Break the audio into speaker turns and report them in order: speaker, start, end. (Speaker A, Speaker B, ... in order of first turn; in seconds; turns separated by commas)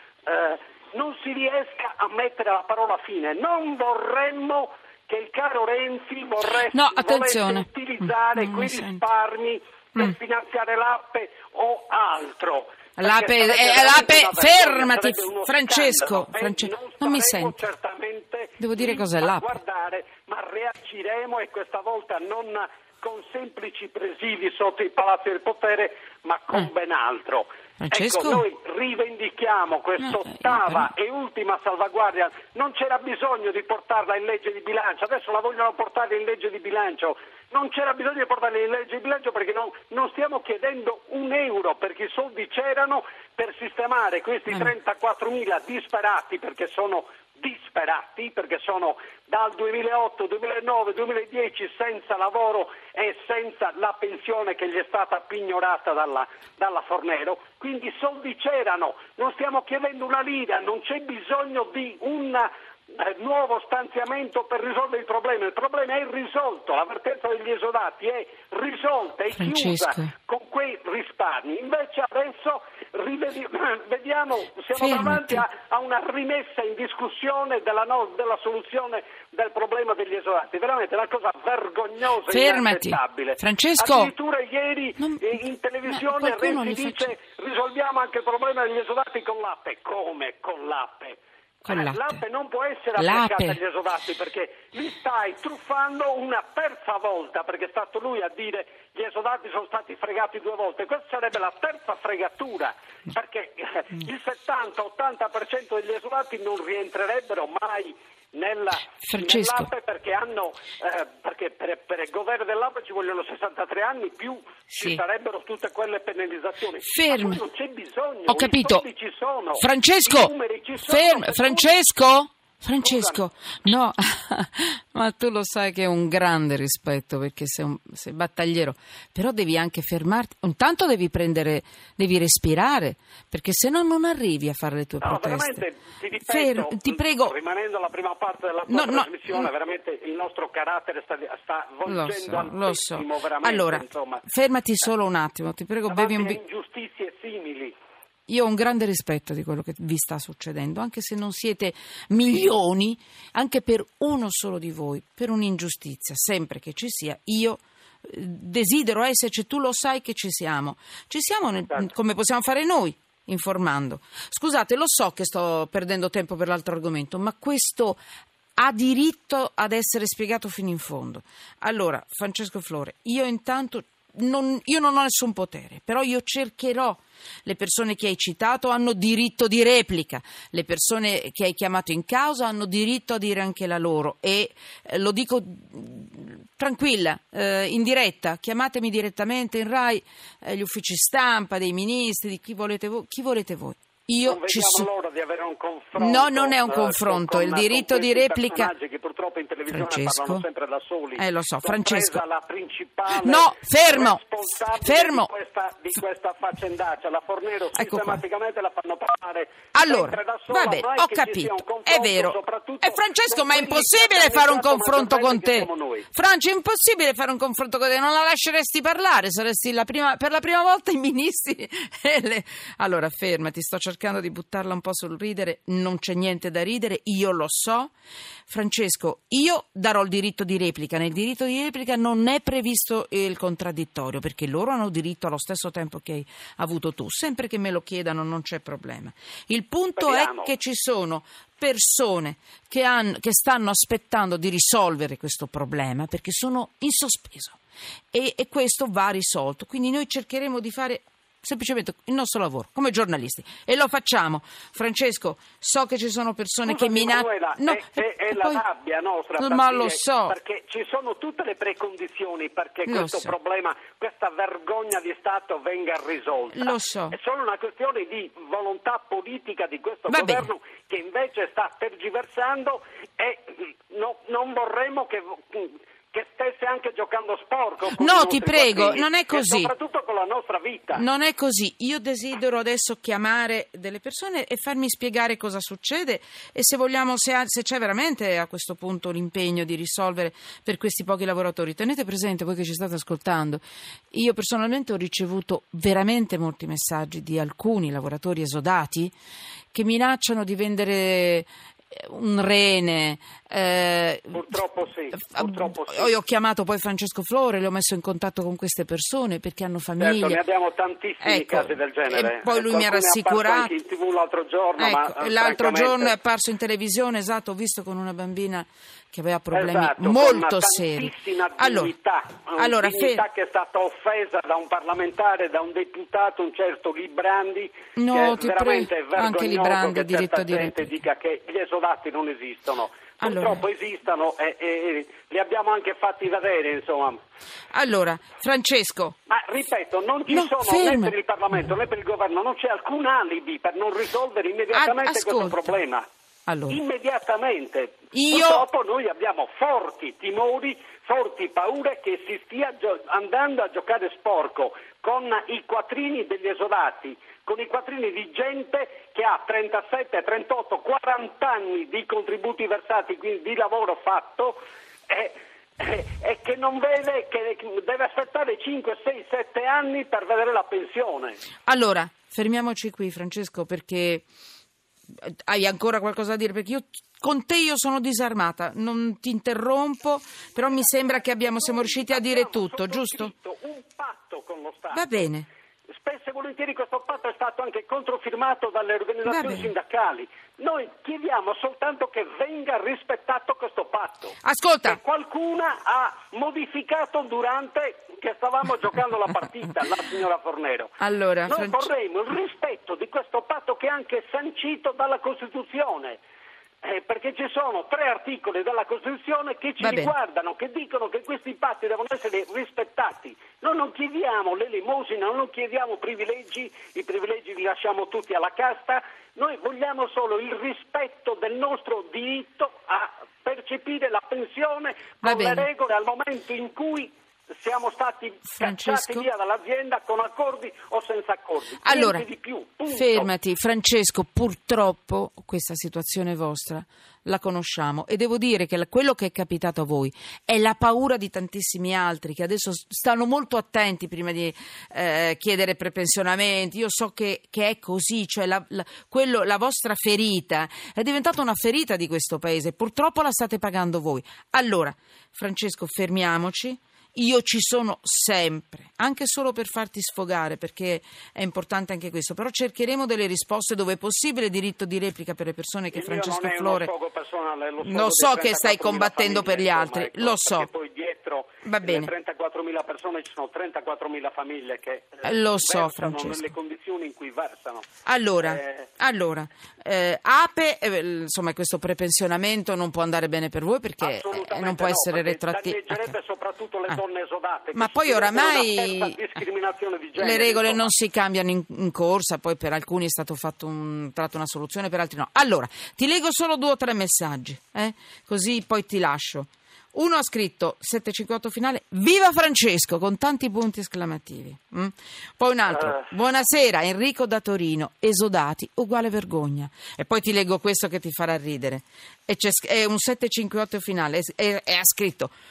Speaker A: 0.2-121.8, Speaker B: 6.7-9.0, Speaker B: 13.0-17.6, Speaker B: 18.6-19.6, Speaker B: 27.8-28.4, Speaker B: 30.0-30.9, Speaker B: 69.3-70.1, Speaker B: 74.7-75.4, Speaker B: 82.3-84.1, Speaker B: 85.0-85.3, Speaker B: 85.9-87.1, Speaker B: 91.6-92.2, Speaker B: 93.0-93.6, Speaker B: 109.0-109.7, Speaker B: 114.7-115.0, Speaker B: 116.8-117.4, Speaker B: 118.3-118.8, Speaker B: 119.6-135.6, Speaker A: 122.8-123.2, Speaker A: 135.0-144.2, Speaker B: 136.2-137.3, Speaker B: 138.7-139.5, Speaker B: 141.8-146.4, Speaker A: 145.9-147.7, Speaker B: 148.3-168.0, Speaker B: 168.6-194.9, Speaker A: 194.2-216.1, Speaker B: 195.9-198.7, Speaker B: 199.7-200.4, Speaker B: 201.2-202.2, Speaker B: 203.1-204.2, Speaker B: 204.8-205.3, Speaker B: 207.7-208.2, Speaker B: 209.7-227.9, Speaker B: 228.5-247.6, Speaker A: 240.0-240.5, Speaker B: 248.1-258.6, Speaker A: 256.6-281.0, Speaker B: 259.4-260.4, Speaker B: 262.9-263.3, Speaker B: 266.5-267.1, Speaker B: 270.1-270.4, Speaker B: 277.9-279.7, Speaker B: 280.9-299.1, Speaker B: 299.7-304.6, Speaker A: 304.3-306.1, Speaker B: 305.1-310.4, Speaker A: 310.0-316.1, Speaker B: 311.2-313.7, Speaker B: 314.8-321.9, Speaker A: 319.5-337.2, Speaker B: 322.6-323.2, Speaker B: 327.9-330.8, Speaker B: 333.2-333.6, Speaker B: 337.7-339.2, Speaker A: 339.3-346.0, Speaker B: 340.3-341.1, Speaker B: 344.7-345.7, Speaker B: 346.5-346.8, Speaker A: 346.7-371.4, Speaker B: 348.1-348.6, Speaker B: 371.6-374.2, Speaker B: 375.2-383.3, Speaker A: 380.6-385.3, Speaker B: 384.9-385.5, Speaker A: 386.0-400.9, Speaker B: 389.2-389.7, Speaker B: 394.4-395.0, Speaker B: 401.0-401.9, Speaker A: 401.5-406.2, Speaker A: 406.8-433.3, Speaker B: 409.8-410.1, Speaker B: 425.2-425.7, Speaker B: 428.5-429.3, Speaker B: 431.8-432.2, Speaker B: 432.9-466.9, Speaker A: 465.9-477.9, Speaker B: 467.8-470.7, Speaker B: 471.6-472.1, Speaker B: 475.2-476.4, Speaker B: 478.0-486.1, Speaker A: 478.4-478.9, Speaker A: 484.0-490.9, Speaker B: 487.7-489.3, Speaker B: 490.2-515.3